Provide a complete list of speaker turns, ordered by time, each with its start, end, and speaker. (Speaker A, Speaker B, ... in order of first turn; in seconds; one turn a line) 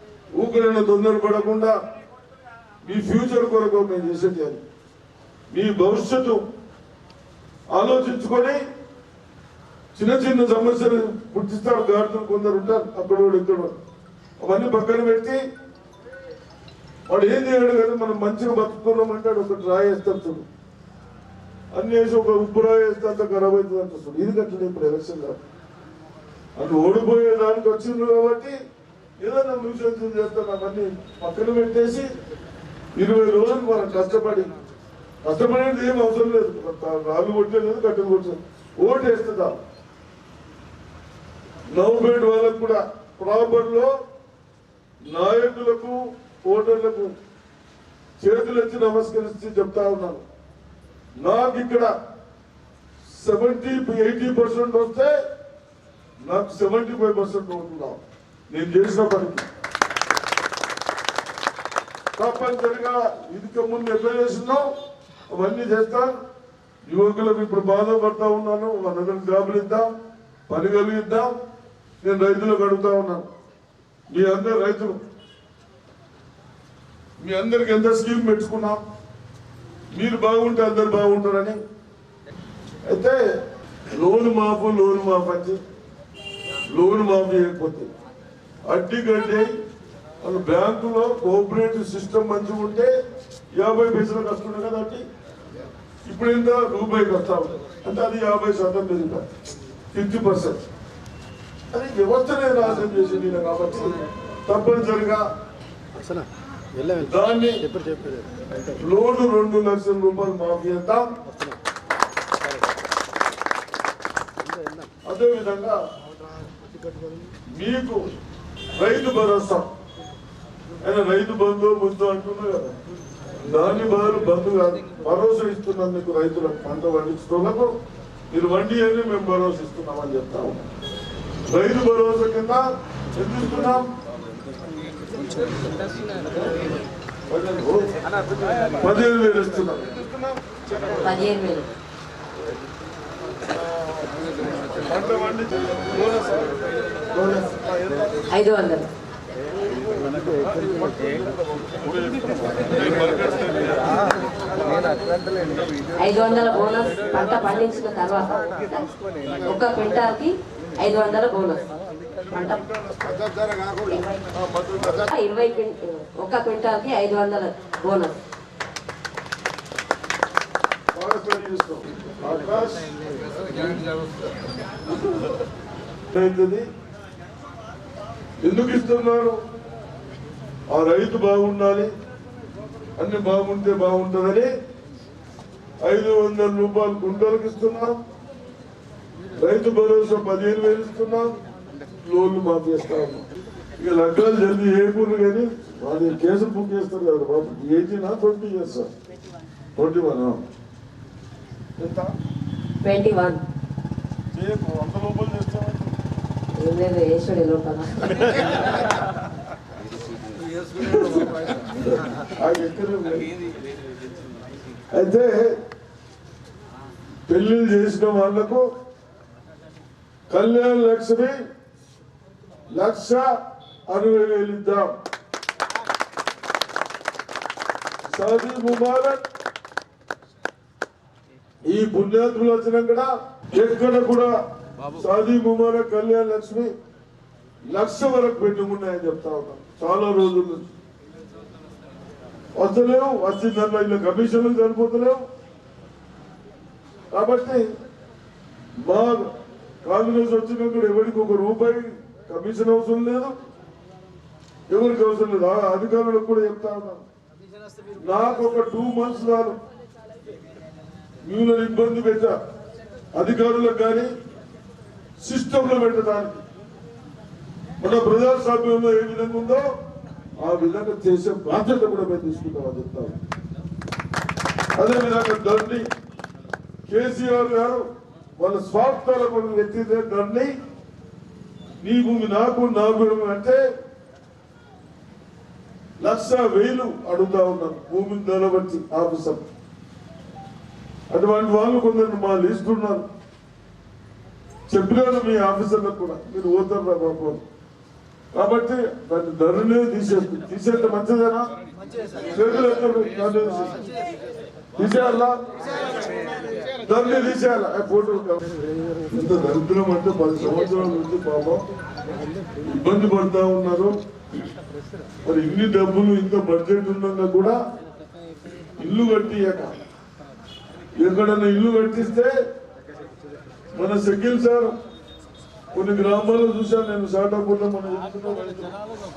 Speaker A: 0.4-1.8
Speaker A: 2.8-4.6
Speaker A: 5.5-6.4
Speaker A: 7.7-8.6
Speaker A: 10.0-13.8
Speaker A: 14.4-15.4
Speaker A: 17.1-20.5
Speaker A: 21.8-25.4
Speaker A: 26.6-28.6
Speaker A: 29.2-32.1
Speaker A: 33.0-34.5
Speaker A: 35.3-39.6
Speaker A: 41.7-43.9
Speaker A: 45.1-47.1
Speaker A: 48.2-50.2
Speaker A: 51.2-51.9
Speaker A: 53.1-55.2
Speaker A: 56.2-59.5
Speaker A: 62.2-64.7
Speaker A: 65.3-66.2
Speaker A: 66.9-69.9
Speaker A: 70.5-71.4
Speaker A: 72.0-73.2
Speaker A: 74.1-75.0
Speaker A: 77.2-78.8
Speaker A: 80.0-81.6
Speaker A: 82.9-83.2
Speaker A: 83.9-85.6
Speaker A: 86.7-87.9
Speaker A: 88.7-89.5
Speaker A: 90.2-92.9
Speaker A: 93.6-95.0
Speaker A: 96.1-99.3
Speaker A: 99.9-100.6
Speaker A: 101.7-105.2
Speaker A: 107.0-107.6
Speaker A: 108.8-111.1
Speaker A: 115.1-115.8
Speaker A: 117.6-118.0
Speaker A: 118.8-119.7
Speaker A: 120.8-122.7
Speaker A: 123.4-127.7
Speaker A: 128.3-130.6
Speaker A: 131.5-132.6
Speaker A: 133.2-133.9
Speaker A: 137.3-137.9
Speaker A: 138.8-140.3
Speaker B: 140.9-141.7
Speaker A: 143.6-144.2
Speaker A: 144.8-146.5
Speaker A: 147.2-147.6
Speaker B: 148.3-148.9
Speaker A: 150.4-154.0
Speaker B: 156.0-158.9
Speaker B: 159.5-161.6
Speaker B: 162.3-162.6
Speaker A: 162.5-163.2
Speaker B: 163.9-164.2
Speaker A: 164.3-165.1
Speaker B: 165.1-168.2
Speaker A: 170.9-172.9
Speaker A: 176.1-176.7
Speaker A: 178.4-179.4
Speaker A: 180.7-181.9
Speaker A: 183.0-184.5
Speaker A: 185.8-188.0
Speaker A: 189.4-191.3
Speaker A: 192.1-193.2
Speaker A: 193.8-198.9
Speaker A: 199.8-200.4
Speaker A: 201.8-202.2
Speaker B: 202.8-203.4
Speaker A: 204.3-205.9
Speaker B: 206.5-208.4
Speaker A: 210.8-211.3
Speaker A: 212.4-213.3
Speaker A: 214.9-215.6
Speaker A: 217.3-218.7
Speaker A: 220.3-221.3
Speaker A: 222.7-223.3
Speaker A: 223.9-224.9
Speaker A: 228.1-229.2
Speaker A: 231.7-234.3
Speaker A: 234.9-236.7
Speaker A: 237.7-240.7
Speaker A: 242.6-245.2
Speaker A: 247.1-247.7
Speaker A: 248.8-249.3
Speaker A: 249.8-253.3
Speaker A: 254.7-257.1
Speaker A: 258.0-259.6
Speaker A: 261.3-262.3
Speaker A: 263.1-264.1
Speaker A: 265.2-266.4
Speaker A: 267.8-269.7
Speaker A: 270.4-273.2
Speaker A: 274.8-275.9
Speaker A: 276.9-277.8
Speaker A: 278.4-280.5
Speaker A: 281.8-283.6
Speaker A: 286.0-289.4
Speaker A: 291.1-293.1
Speaker A: 294.7-297.4
Speaker A: 298.4-301.5
Speaker A: 302.3-303.8
Speaker A: 304.8-305.4
Speaker A: 306.9-308.4
Speaker A: 309.1-311.6
Speaker A: 312.6-313.9
Speaker A: 315.3-317.6
Speaker A: 318.8-319.8
Speaker A: 321.0-322.3
Speaker A: 323.8-324.7
Speaker A: 325.7-328.8